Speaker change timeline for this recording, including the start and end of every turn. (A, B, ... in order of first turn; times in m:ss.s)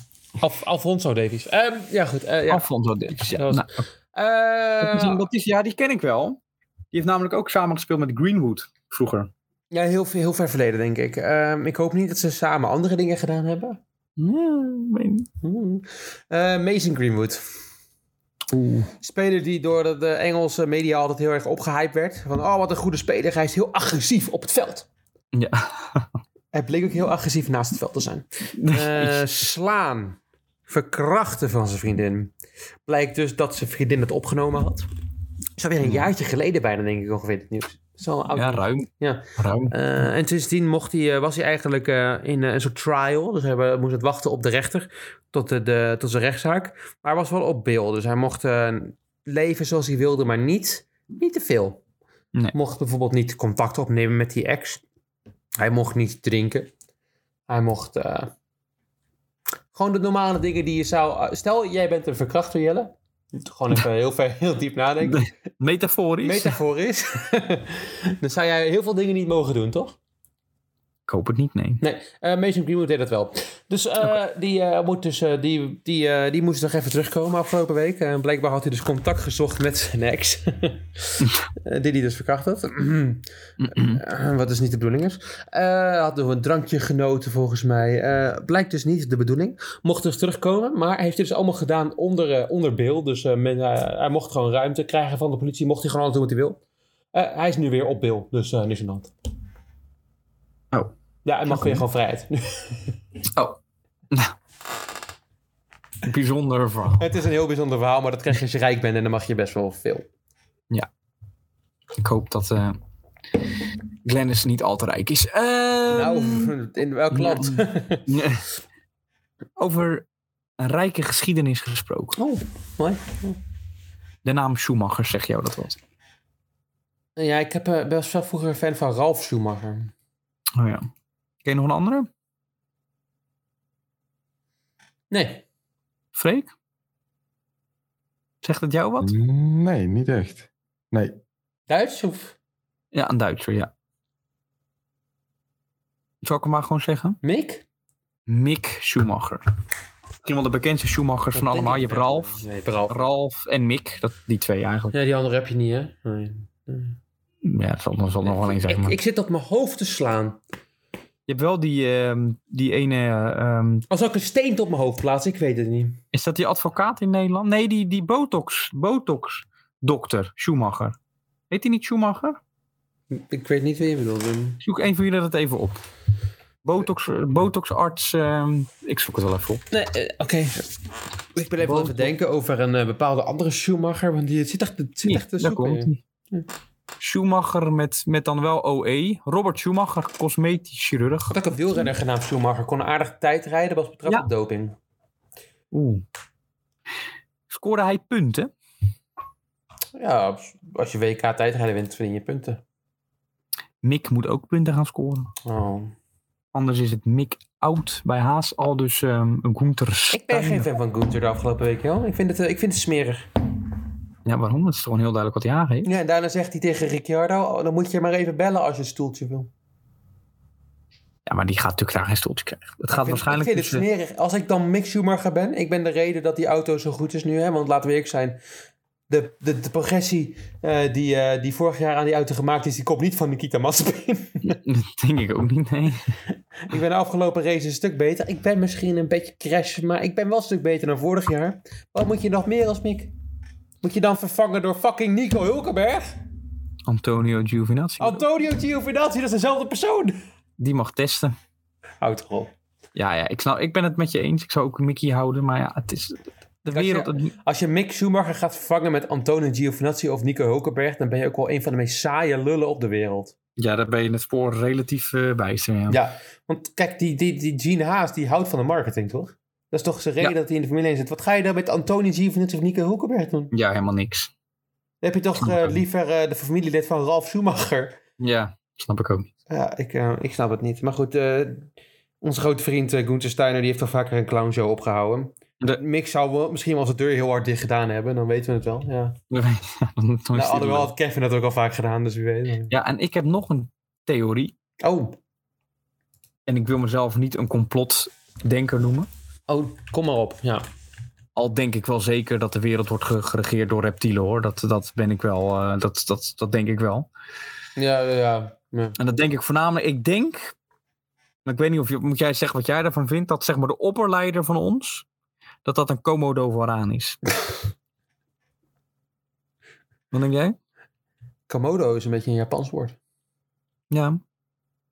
0:00.4-0:05.2 A
0:02.5-0:03.8 B
0:04.8-0:06.4 B
0:06.9-0:09.3 B
0:09.7-0:13.8 A
0:14.2-0:15.3 B
0:15.4-0:17.4 A
0:18.5-0:18.9 B
0:19.0-0:24.9 A
0:25.3-0:26.2 B
0:26.5-0:32.3 A
0:28.6-0:29.3 B
0:32.9-0:34.9 A
0:35.6-0:51.8 A
0:35.8-0:36.1 B
0:38.3-0:40.1 B
0:52.5-0:54.8 A
0:55.6-0:56.7 A
0:57.5-0:58.3 A
0:59.7-1:05.3 A
1:05.0-1:06.6 B
1:06.2-1:10.0 A
1:11.1-1:11.8 B
1:11.8-1:36.6 A
1:23.6-1:24.0 B
1:37.1-1:39.1 A
1:41.2-1:42.9 A
1:41.5-1:41.8 B
1:46.0-1:47.1 B
1:46.9-1:50.1 A
1:52.0-1:52.8 B
1:54.0-1:56.5 B
1:55.9-1:58.1 A
1:57.1-1:58.4 B
1:59.6-2:00.1 B
2:00.6-2:02.2 B
2:02.2-2:03.4 A
2:04.2-2:05.8 B
2:07.2-2:09.9 A
2:10.6-2:10.9 B
2:11.4-2:12.1 B
2:15.1-2:15.4 A
2:16.2-2:16.5 B
2:18.4-2:19.1 B
2:19.0-2:21.2 C
2:21.7-2:22.4 A
2:22.9-2:23.7 B
2:26.2-2:27.2 B
2:27.2-2:27.6 A
2:28.3-2:29.4 B
2:30.2-2:32.3 B
2:31.3-2:33.0 A
2:32.9-2:34.9 B
2:34.9-2:37.0 A
2:37.4-2:39.0 B
2:38.2-2:40.4 A
2:41.3-2:43.8 B
2:43.9-2:46.0 A
2:46.1-2:51.0 B
2:51.5-2:52.4 B
2:53.1-2:54.6 A
2:54.6-2:55.8 B
2:56.6-2:59.6 B
2:59.7-3:00.7 A
3:01.4-3:06.5 A
3:01.6-3:02.1 B
3:05.0-3:06.0 B
3:07.0-3:11.3 B
3:11.3-3:14.8 A
3:15.7-3:16.0 B
3:17.5-3:18.5 B
3:20.0-3:22.6 A
3:23.8-3:25.3 B
3:25.4-3:25.9 A
3:26.5-3:30.7 B
3:30.1-3:33.3 A
3:34.2-3:35.9 B
3:35.8-3:39.5 A
3:41.3-3:43.9 B
3:42.9-3:48.4 A
3:49.1-3:54.6 A
3:54.4-3:56.2 B
3:56.6-4:03.1 A
4:03.8-4:06.2 A
4:06.9-4:08.2 B
4:08.0-4:10.2 A
4:10.6-4:11.4 B
4:12.0-4:12.5 A
4:13.0-4:17.3 B
4:16.7-4:23.3 A
4:23.6-4:26.0 B
4:25.9-4:33.5 A
4:33.5-4:34.3 B
4:35.0-4:38.0 A
4:35.4-4:35.8 B
4:38.2-4:39.3 B
4:39.5-4:49.2 A
4:49.3-4:50.9 B
4:50.3-4:52.7 A
4:52.7-4:54.5 B
4:54.8-4:55.2 A
4:56.5-4:59.1 B
4:59.5-5:00.7 A
5:01.4-5:07.1 B
5:07.8-5:09.0 A
5:09.0-5:10.5 B
5:11.4-5:15.1 B
5:15.6-5:17.2 B
5:20.1-5:20.6 B
5:21.5-5:23.0 A
5:23.9-5:24.2 B